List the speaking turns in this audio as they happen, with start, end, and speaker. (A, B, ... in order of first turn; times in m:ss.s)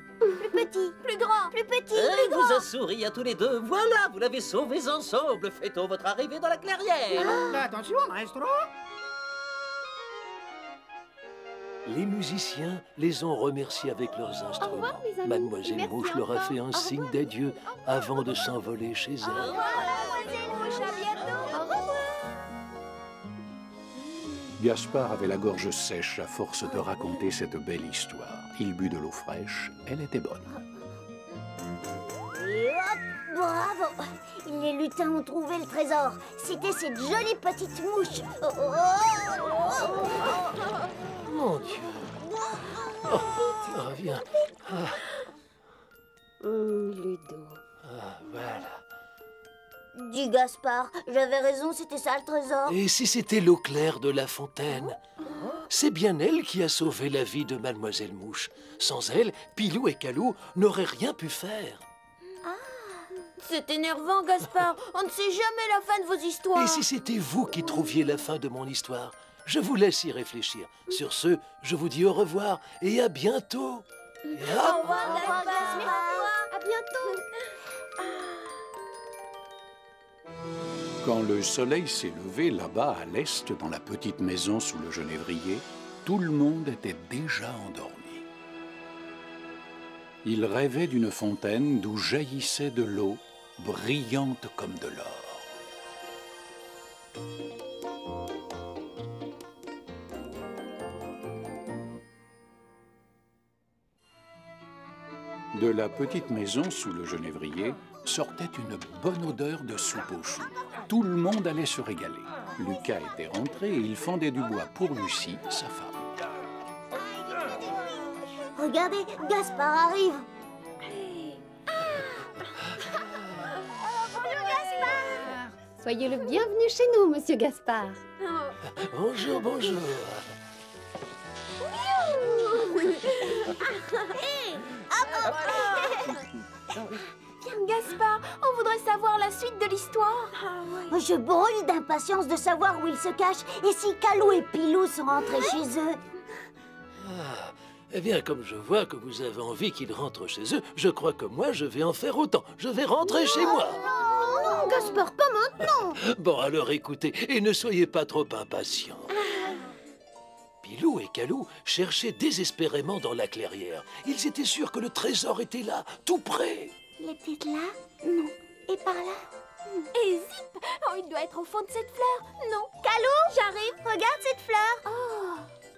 0:00.4-0:01.0 A
0:01.0-0:01.5 B
0:01.5-0:02.6 A
0:01.9-0:07.4 C
0:07.2-0:07.6 A
0:11.8-0:19.5 D
0:14.6-0:17.1 E
0:19.3-0:22.0 B
0:24.6-0:30.5 F
0:32.3-0:40.5 A
0:41.2-0:42.1 D
0:42.3-0:43.6 A
0:43.0-0:45.0 D
0:47.8-0:48.8 D
0:49.9-0:52.8 A
0:52.7-0:55.0 D
0:55.7-1:01.8 D
1:02.4-1:03.0 A
1:03.4-1:06.8 B
1:06.5-1:15.1 D
1:14.3-1:17.2 B
1:14.8-1:16.4 A
1:16.5-1:17.1 E
1:21.0-1:28.3 F
1:30.2-1:35.5 F
1:45.5-1:56.1 F
1:56.9-2:00.2 A
2:00.9-2:02.1 B
2:04.1-2:05.4 B
2:04.1-2:05.2 A
2:05.8-2:08.0 E
2:08.2-2:08.5 B
2:08.8-2:10.2 D
2:11.6-2:13.8 B
2:14.1-2:16.1 A
2:15.2-2:16.2 B
2:17.4-2:20.8 B
2:20.9-2:26.0 A
2:27.0-2:33.8 D
2:33.3-2:34.9 A
2:34.4-2:36.0 E
2:35.6-2:39.1 D
2:40.6-2:46.7 D
2:47.0-2:49.8 A
2:49.9-2:52.7 B
2:52.8-2:54.8 A
2:53.3-2:53.8 B
2:54.9-2:55.4 B